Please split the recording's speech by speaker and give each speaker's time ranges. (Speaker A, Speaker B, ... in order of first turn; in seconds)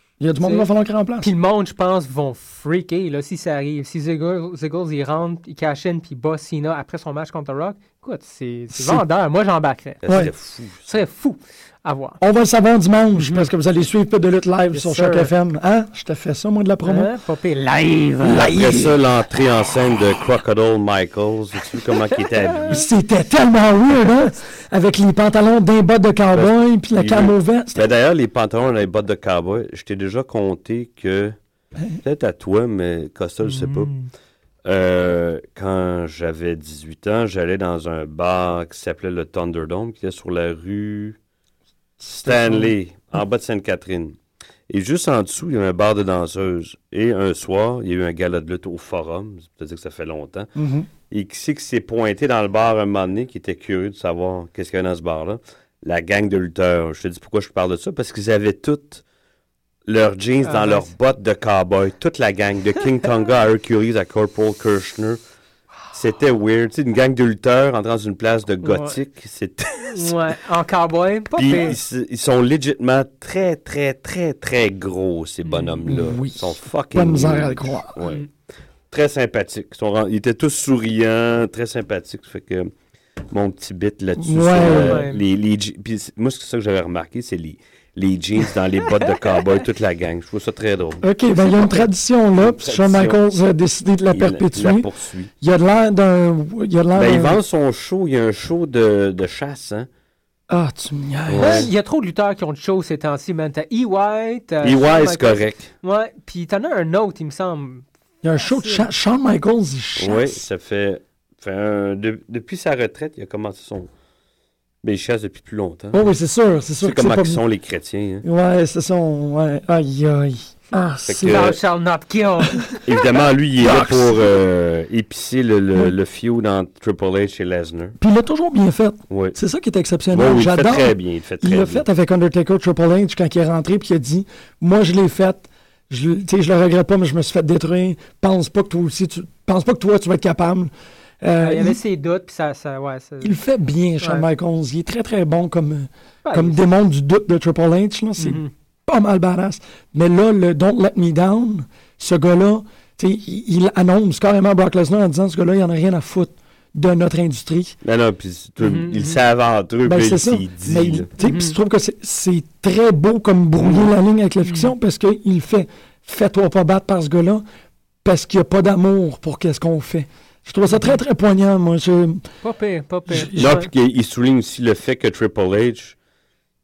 Speaker A: 0.2-1.3, 8.7-9.0, 12.2-17.1, 18.2-18.9, 22.7-27.9, 42.0-42.7, 50.5-50.9, 75.9-77.9, 84.2-85.0, 91.0-94.9, 95.4-97.4, 100.5-101.7, 108.2-110.4, 115.9-117.4, 118.2-121.5, 123.6-124.4, 128.0-141.8, 143.2-157.8, 159.8-167.4, 168.0-172.2, 173.1-173.7
Speaker B: 0.4-0.7, 1.2-10.2, 10.8-12.2, 14.7-15.3, 16.8-18.5, 22.1-22.8, 33.4-34.1, 60.4-60.9, 68.6-69.0, 69.8-71.8, 75.5-75.8, 84.6-85.2, 101.4-107.8, 108.4-108.9, 121.2-122.7, 141.4-143.4, 144.0-144.2, 146.2-146.6, 148.2-148.5, 158.6-159.2, 161.2-161.6, 164.4-164.7, 170.7-171.0, 172.4-173.7
Speaker C: 10.0-10.9, 18.2-22.8, 26.3-31.3, 32.0-33.9, 34.6-41.2, 42.1-44.2, 44.7-50.5, 51.1-59.0, 59.9-65.2, 65.9-70.2, 71.3-78.2, 78.9-82.7, 83.3-91.9, 92.4-93.2, 94.1-95.3, 96.9-99.9, 101.3-101.7, 104.6-105.7, 110.0-113.9, 114.8-116.0, 116.8-118.2, 121.1-121.6, 122.8-128.0, 129.1-129.3, 130.1-131.8, 157.8-161.1, 173.3-175.9